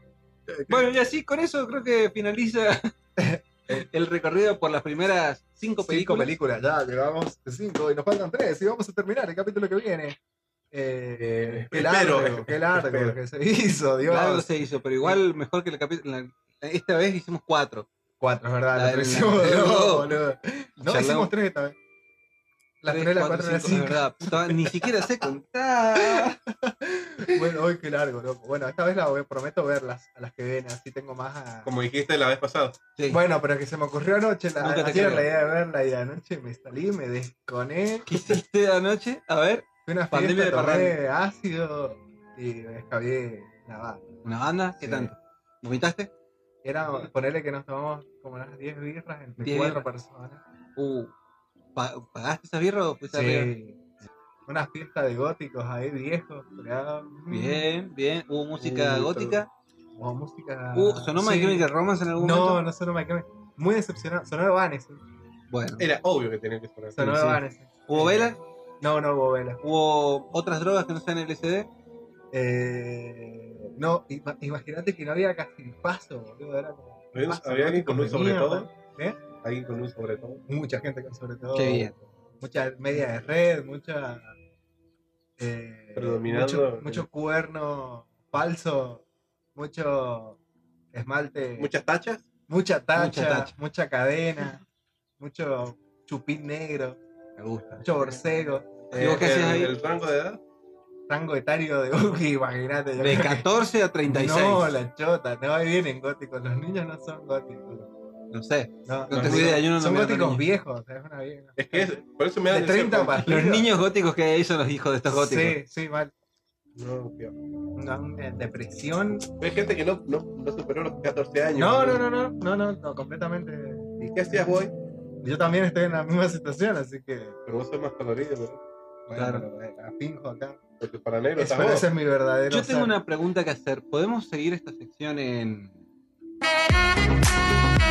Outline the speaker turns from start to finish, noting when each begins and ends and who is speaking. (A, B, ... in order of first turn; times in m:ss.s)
0:00.5-0:00.9 A
0:00.7-0:02.9 B
0:03.2-0:03.4 C
0:03.7-0:06.3 B
0:05.8-0:10.2 C
0:10.7-0:14.5 C
0:11.2-0:13.2 A
0:14.0-0:17.9 B
0:18.2-0:21.8 C
0:18.7-0:20.1 B
0:20.8-0:21.3 B
0:22.8-0:25.2 C
0:22.8-0:26.4 B
0:26.0-0:31.7 C
0:31.6-0:32.8 A
0:33.0-0:33.2 B
0:33.1-0:38.1 C
0:34.6-0:35.3 B
0:38.1-0:41.0 B
0:39.8-0:44.1 C
0:44.2-0:46.1 B
0:44.8-0:45.1 C
0:46.6-0:50.4 C
0:49.4-0:49.8 B
0:50.8-0:51.1 B
0:51.8-0:53.5 B
0:53.1-0:53.8 C
0:54.5-0:57.7 C
0:57.3-0:59.5 B
0:58.6-0:59.4 A
1:00.0-1:05.0 C
1:00.7-1:02.6 B
1:05.5-1:05.8 B
1:05.8-1:07.0 A
1:06.9-1:09.6 C
1:07.0-1:08.4 B
1:09.6-1:11.7 B
1:12.3-1:19.2 C
1:17.1-1:18.7 A
1:19.4-1:20.4 A
1:20.5-1:24.3 C
1:21.5-1:21.9 B
1:25.4-1:29.0 C
1:26.0-1:27.0 A
1:29.5-1:30.4 C
1:30.9-1:31.7 C
1:31.6-1:32.2 A
1:32.5-1:34.6 C
1:32.9-1:33.5 B
1:35.2-1:37.0 C
1:37.4-1:38.1 B
1:37.8-1:38.8 C
1:38.9-1:40.4 A
1:38.9-1:39.7 B
1:41.1-1:43.5 C
1:43.0-1:44.7 B
1:44.0-1:47.9 C
1:48.3-1:50.4 B
1:48.8-1:52.0 C
1:49.1-1:49.6 A
1:51.6-1:53.3 A
1:52.5-1:53.7 C
1:53.3-1:55.6 B
1:55.1-1:56.1 C
1:56.8-1:57.3 A
1:57.8-1:59.2 C
1:59.4-2:02.0 A
2:01.5-2:03.8 C
2:04.0-2:04.7 A
2:05.2-2:07.4 C
2:07.4-2:08.6 A
2:09.1-2:10.6 C
2:09.1-2:09.4 B
2:10.8-2:11.9 A
2:11.4-2:12.9 C
2:12.5-2:15.8 B